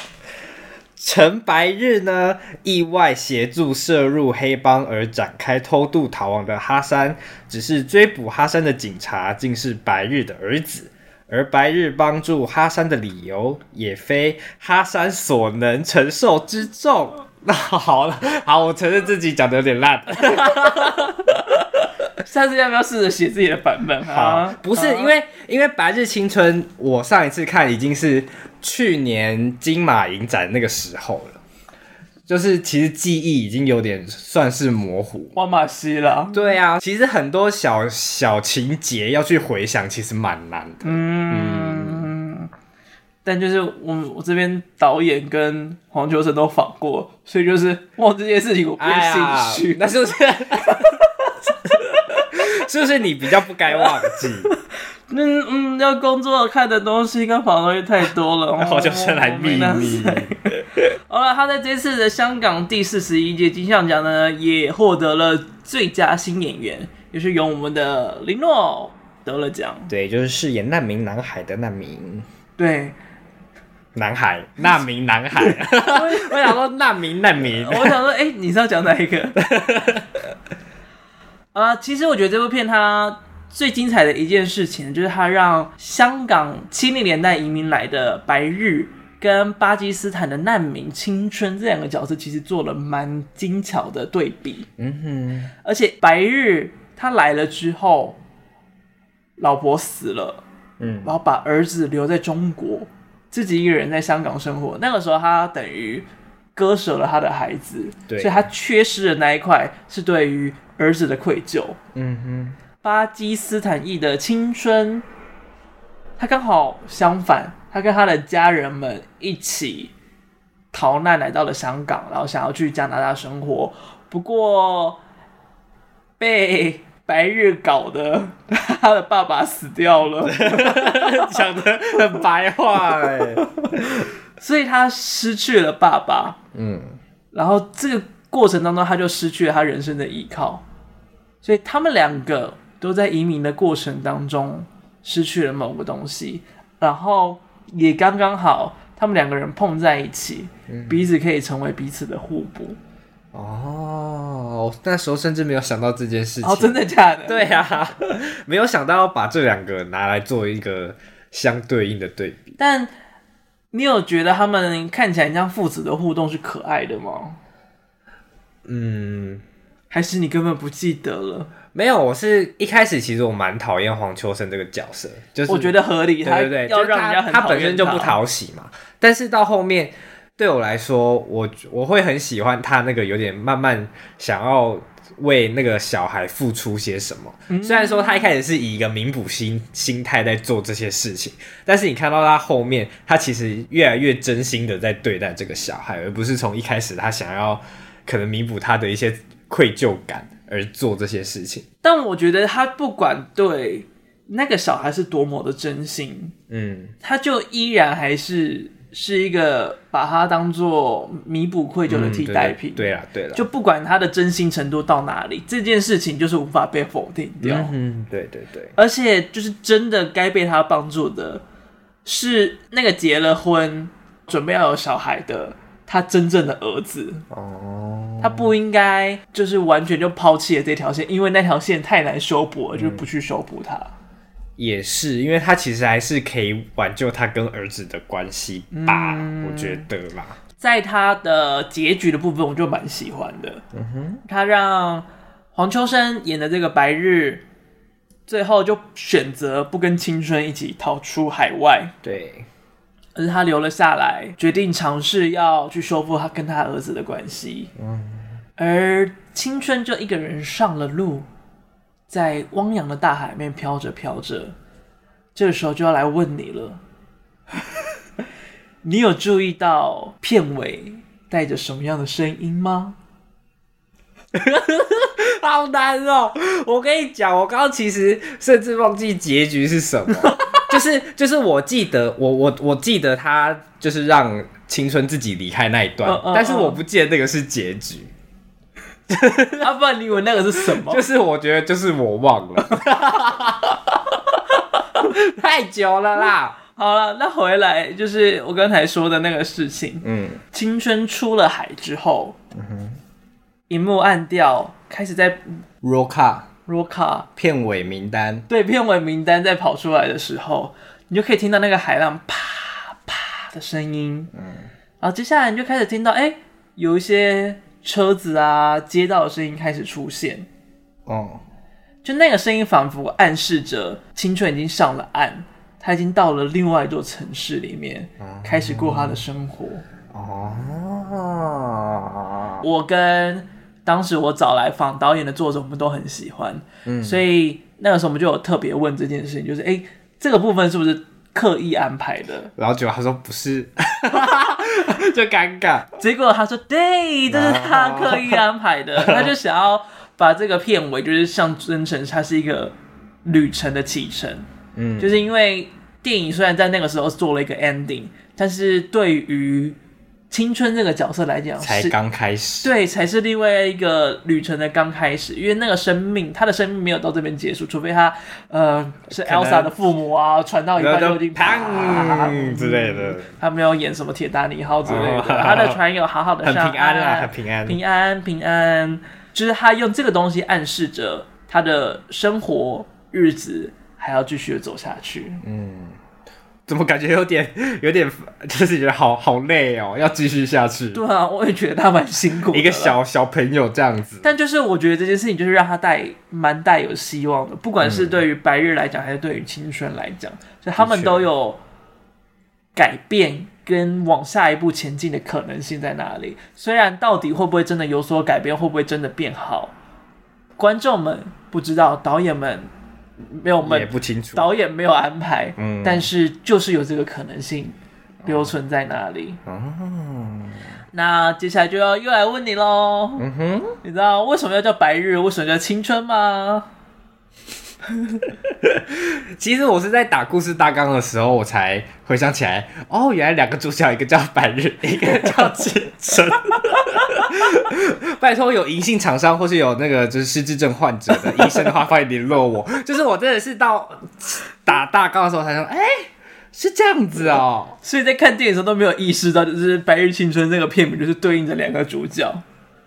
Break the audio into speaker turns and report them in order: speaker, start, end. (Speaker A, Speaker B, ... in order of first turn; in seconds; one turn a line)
Speaker A: 1.0-21.2
Speaker B: 22.2-25.1
Speaker A: 24.1-31.4
Speaker A: 32.3-35.4
Speaker B: 35.4-36.5
Speaker A: 36.3-42.1
Speaker B: 40.8-42.5
Speaker B: 43.2-50.1
Speaker A: 48.8-50.9
Speaker A: 52.3-54.5
Speaker B: 55.1-60.5
Speaker A: 58.6-60.6
Speaker B: 61.1-69.9
Speaker A: 69.9-72.3
Speaker B: 72.6-73.0
Speaker A: 74.0-78.0
Speaker B: 75.7-76.6
Speaker B: 77.6-79.4
Speaker A: 79.4-80.1
Speaker B: 81.5-94.7
Speaker A: 94.8-95.5
Speaker B: 95.6-98.2
Speaker B: 99.4-100.4
Speaker A: 100.8-101.1
Speaker B: 101.0-111.8
Speaker A: 108.1-108.5
Speaker A: 112.0-112.6
Speaker B: 112.8-115.0
Speaker B: 116.2-119.9
Speaker B: 120.7-125.0
Speaker B: 126.2-131.4
Speaker A: 130.2-134.1
Speaker B: 133.8-136.4
Speaker A: 136.5-137.0
Speaker B: 137.3-140.6
Speaker B: 141.4-152.8
Speaker A: 150.7-151.1
Speaker A: 153.3-162.6
Speaker B: 156.4-157.6
Speaker B: 162.6-162.9
Speaker B: 163.7-167.4
Speaker A: 168.7-169.4
Speaker B: 169.9-171.5
Speaker A: 171.7-201.7
Speaker B: 175.5-178.2
Speaker B: 187.5-188.3
Speaker B: 201.8-206.3
Speaker A: 206.5-206.9
Speaker B: 207.0-217.7
Speaker A: 211.9-213.4
Speaker A: 217.4-218.7
Speaker B: 218.8-221.4
Speaker B: 222.1-227.2
Speaker A: 227.3-228.5
Speaker B: 228.2-233.9
Speaker A: 232.8-233.1
Speaker A: 234.6-240.4
Speaker B: 238.7-239.9
Speaker B: 240.6-243.6
Speaker A: 243.7-244.2
Speaker B: 244.2-247.4
Speaker B: 248.3-251.9
Speaker A: 252.0-252.5
Speaker B: 253.2-257.7
Speaker A: 257.8-258.2
Speaker B: 258.6-261.3
Speaker B: 262.1-264.6
Speaker B: 265.4-266.8
Speaker B: 268.8-273.0
Speaker A: 274.3-288.1
Speaker B: 280.2-280.6
Speaker B: 286.0-286.8
Speaker A: 289.1-289.7
Speaker B: 289.6-291.0
Speaker A: 290.7-294.2
Speaker A: 295.0-296.6
Speaker B: 296.8-302.4
Speaker A: 300.0-300.4
Speaker A: 302.5-303.0
Speaker B: 303.7-305.5
Speaker A: 305.8-306.5
Speaker B: 306.7-307.3
Speaker A: 307.4-308.5
Speaker B: 308.5-314.3
Speaker A: 314.4-314.7
Speaker B: 315.0-320.5
Speaker A: 321.1-321.4
Speaker B: 322.0-329.9
Speaker A: 328.2-329.2
Speaker A: 330.1-332.6
Speaker B: 332.6-342.5
Speaker A: 336.9-337.2
Speaker A: 342.6-345.9
Speaker B: 346.0-354.5
Speaker A: 347.3-348.4
Speaker A: 349.0-349.3
Speaker A: 354.8-355.2
Speaker B: 355.0-359.8
Speaker B: 360.3-361.9
Speaker A: 361.6-362.7
Speaker B: 362.6-385.4
Speaker A: 369.1-369.7
Speaker A: 370.8-373.3
Speaker A: 374.9-375.8
Speaker A: 376.4-377.8
Speaker A: 385.4-386.0
Speaker A: 386.7-391.0
Speaker B: 390.9-393.0
Speaker A: 392.5-394.3
Speaker B: 394.2-401.6
Speaker A: 397.8-398.2
Speaker A: 400.8-401.3
Speaker B: 402.8-409.7
Speaker B: 410.6-412.7
Speaker B: 413.2-419.4
Speaker A: 413.6-414.5
Speaker A: 415.6-416.1
Speaker A: 418.2-418.5
Speaker A: 419.5-420.6
Speaker B: 420.9-423.3
Speaker A: 423.2-423.8
Speaker B: 423.8-426.7
Speaker A: 428.9-447.8
Speaker B: 447.8-452.4